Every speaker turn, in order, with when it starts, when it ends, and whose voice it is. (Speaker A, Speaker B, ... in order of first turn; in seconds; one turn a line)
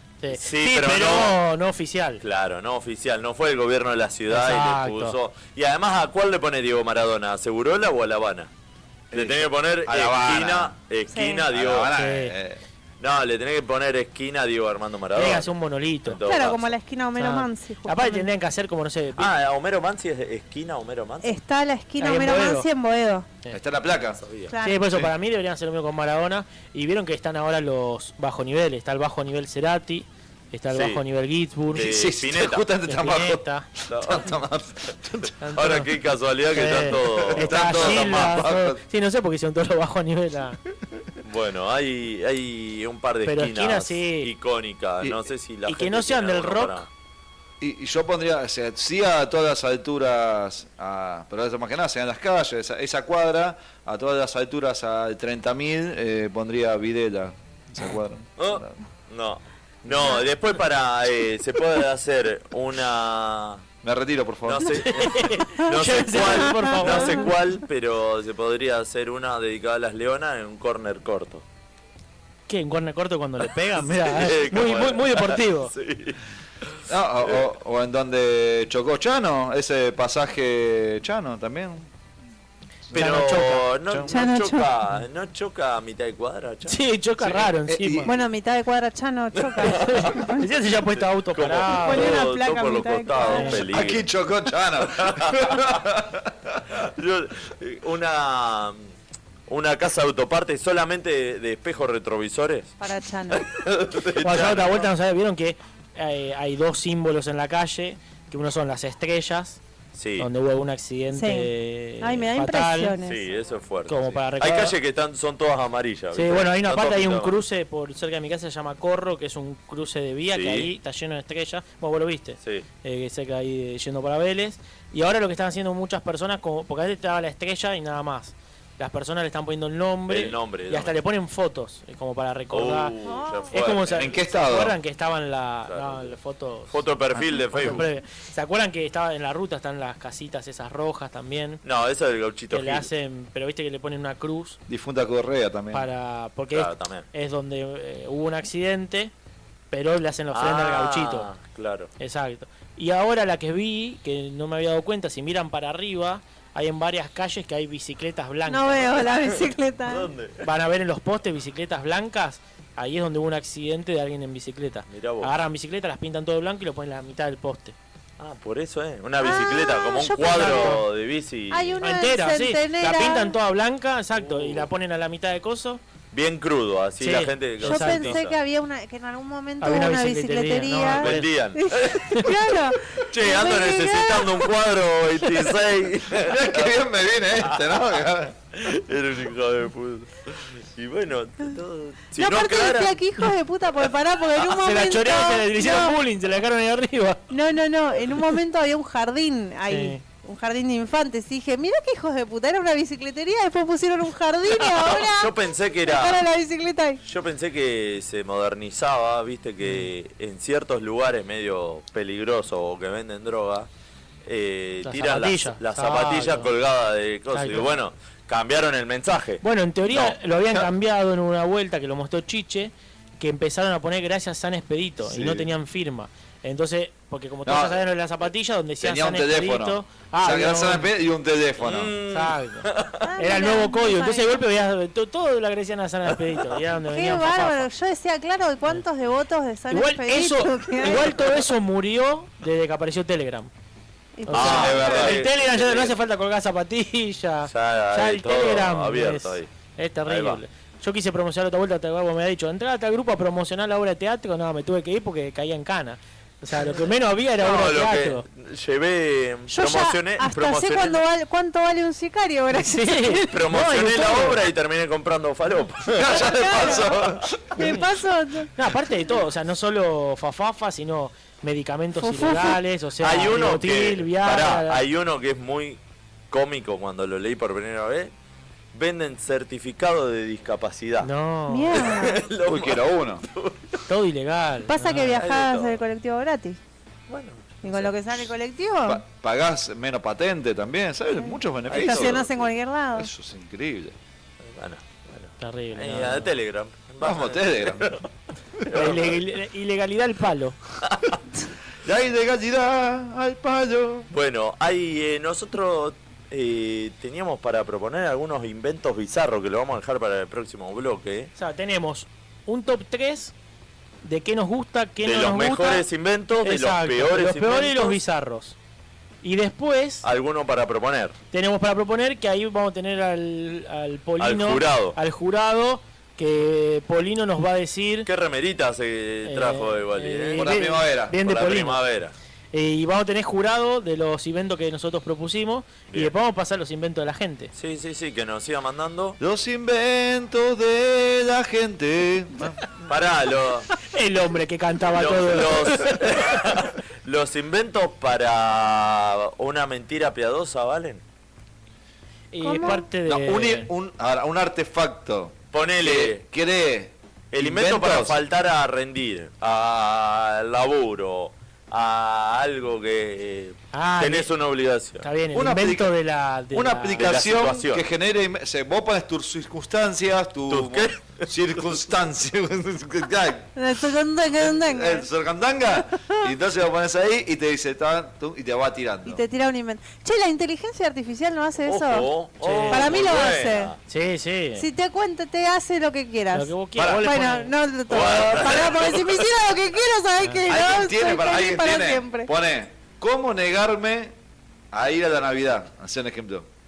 Speaker A: 0.2-2.2
Speaker B: 0.3-1.4
Speaker B: 2.2-8.5
Speaker A: 4.3-5.2
Speaker C: 9.1-10.7
Speaker B: 9.1-11.9
Speaker D: 11.1-11.5
Speaker C: 11.5-12.6
Speaker A: 11.9-12.3
Speaker B: 13.0-15.5
Speaker A: 15.1-16.2
Speaker B: 16.1-16.7
Speaker D: 16.2-18.3
Speaker A: 17.1-19.3
Speaker B: 19.1-21.4
Speaker D: 21.2-23.3
Speaker A: 22.0-22.7
Speaker C: 23.5-24.2
Speaker B: 24.1-24.5
Speaker D: 24.5-25.0
Speaker A: 24.6-32.1
Speaker B: 30.7-31.0
Speaker B: 31.7-32.6
Speaker C: 31.7-35.3
Speaker A: 32.9-33.7
Speaker B: 33.9-34.3
Speaker A: 35.4-35.9
Speaker B: 35.5-38.4
Speaker A: 36.5-40.6
Speaker C: 37.0-38.8
Speaker B: 41.2-46.9
Speaker A: 43.2-44.3
Speaker A: 45.6-46.9
Speaker C: 47.6-58.7
Speaker B: 58.4-63.6
Speaker C: 59.9-60.1
Speaker C: 63.8-64.8
Speaker B: 64.5-71.4
Speaker A: 64.6-67.4
Speaker D: 66.6-67.1
Speaker A: 72.5-75.7
Speaker B: 73.8-76.2
Speaker B: 76.7-77.5
Speaker C: 76.9-81.9
Speaker A: 82.9-84.1
Speaker B: 82.9-86.8
Speaker D: 84.1-84.7
Speaker A: 86.7-88.1
Speaker C: 87.2-88.1
Speaker D: 88.0-90.5
Speaker B: 89.3-90.1
Speaker A: 89.6-92.3
Speaker B: 91.3-94.1
Speaker D: 91.8-93.6
Speaker A: 93.2-93.6
Speaker C: 93.7-96.6
Speaker B: 94.8-95.8
Speaker B: 96.7-98.9
Speaker B: 99.5-102.7
Speaker D: 102.8-103.5
Speaker B: 103.3-104.9
Speaker A: 104.2-109.6
Speaker B: 109.9-110.3
Speaker A: 110.2-113.0
Speaker D: 111.1-111.5
Speaker D: 112.0-113.2
Speaker B: 113.0-117.4
Speaker A: 113.9-114.7
Speaker A: 116.1-132.9
Speaker B: 120.3-120.7
Speaker B: 130.1-130.9
Speaker B: 132.5-134.1
Speaker D: 133.0-133.5
Speaker A: 133.5-136.8
Speaker C: 133.8-134.8
Speaker B: 135.7-136.2
Speaker B: 136.7-137.8
Speaker A: 137.3-141.6
Speaker B: 141.6-142.9
Speaker A: 142.5-144.6
Speaker C: 144.7-145.8
Speaker A: 145.7-149.1
Speaker B: 146.5-147.1
Speaker A: 149.7-151.3
Speaker B: 150.3-151.9
Speaker A: 152.0-159.1
Speaker D: 158.5-160.1
Speaker B: 159.1-160.5
Speaker A: 160.4-167.7
Speaker B: 164.9-165.3
Speaker B: 168.2-171.8
Speaker D: 169.2-170.8
Speaker A: 170.2-170.8
Speaker D: 171.5-173.3
Speaker A: 171.8-175.8
Speaker B: 174.1-174.7
Speaker B: 176.1-178.4
Speaker A: 177.0-178.2
Speaker D: 177.6-184.5
Speaker A: 179.6-181.3
Speaker B: 180.9-182.2
Speaker B: 183.0-186.8
Speaker C: 186.1-188.3
Speaker B: 187.4-188.0
Speaker B: 188.6-193.0
Speaker D: 192.2-195.9
Speaker A: 194.4-197.2
Speaker D: 197.3-207.0
Speaker A: 199.7-200.0
Speaker B: 204.5-206.2
Speaker B: 207.0-213.7
Speaker A: 209.6-209.9
Speaker B: 214.2-220.1
Speaker A: 214.8-216.5
Speaker A: 217.3-217.7
Speaker A: 219.4-230.9
Speaker C: 225.0-225.5
Speaker C: 227.4-227.8
Speaker C: 228.8-231.9
Speaker B: 231.6-233.0
Speaker A: 232.1-232.7
Speaker D: 233.0-234.4
Speaker A: 233.2-237.7
Speaker D: 236.9-241.2
Speaker A: 239.7-243.5
Speaker D: 244.2-245.1
Speaker A: 244.3-258.2
Speaker B: 244.3-245.9
Speaker C: 244.3-245.2
Speaker B: 247.4-249.5
Speaker B: 250.1-250.4
Speaker B: 257.4-261.0
Speaker D: 259.5-263.2
Speaker A: 262.5-264.4
Speaker B: 263.3-267.2
Speaker C: 265.9-267.6
Speaker D: 266.1-266.9
Speaker D: 267.5-268.5
Speaker A: 267.6-267.9
Speaker A: 268.6-274.8
Speaker D: 272.0-272.6
Speaker B: 273.0-275.8
Speaker B: 276.3-278.1
Speaker B: 278.7-281.1
Speaker A: 281.0-281.8
Speaker D: 281.5-282.2
Speaker B: 281.7-283.8
Speaker C: 282.4-283.2
Speaker A: 283.9-285.2
Speaker D: 284.7-286.6
Speaker B: 285.1-285.8
Speaker B: 287.1-287.9
Speaker D: 287.6-289.0
Speaker C: 288.8-293.9
Speaker D: 291.1-293.1
Speaker B: 291.7-292.3
Speaker B: 294.4-298.1
Speaker A: 295.4-296.3
Speaker C: 297.0-298.0
Speaker B: 298.7-299.0
Speaker A: 298.7-300.6
Speaker B: 300.9-301.2
Speaker C: 301.8-304.1
Speaker B: 304.1-311.3
Speaker A: 311.4-313.3
Speaker A: 314.0-315.9
Speaker B: 315.0-318.0
Speaker A: 316.4-318.6
Speaker A: 319.2-320.0
Speaker B: 320.0-321.2
Speaker A: 321.3-328.1
Speaker B: 324.2-325.0
Speaker B: 328.0-330.5
Speaker A: 329.2-331.8
Speaker C: 330.4-331.1
Speaker B: 331.1-332.1
Speaker A: 332.5-337.5
Speaker B: 337.5-339.2
Speaker C: 339.2-342.6
Speaker B: 342.9-343.7
Speaker A: 343.9-346.5
Speaker B: 344.9-351.0
Speaker A: 352.3-353.7
Speaker D: 352.4-352.8
Speaker C: 353.0-358.2
Speaker B: 355.5-356.2
Speaker B: 357.3-365.1
Speaker A: 363.7-364.3
Speaker A: 365.0-367.2
Speaker C: 365.3-365.9
Speaker C: 366.5-373.5
Speaker B: 367.0-367.8
Speaker B: 370.5-371.6
Speaker D: 373.6-375.1
Speaker C: 374.5-379.2
Speaker D: 379.0-382.1
Speaker B: 381.6-383.8
Speaker A: 382.4-383.0
Speaker D: 382.7-383.7
Speaker A: 383.9-384.7
Speaker D: 384.6-392.3
Speaker A: 386.3-387.6
Speaker C: 386.8-387.0
Speaker B: 387.9-389.2
Speaker C: 390.5-394.1
Speaker C: 394.7-396.5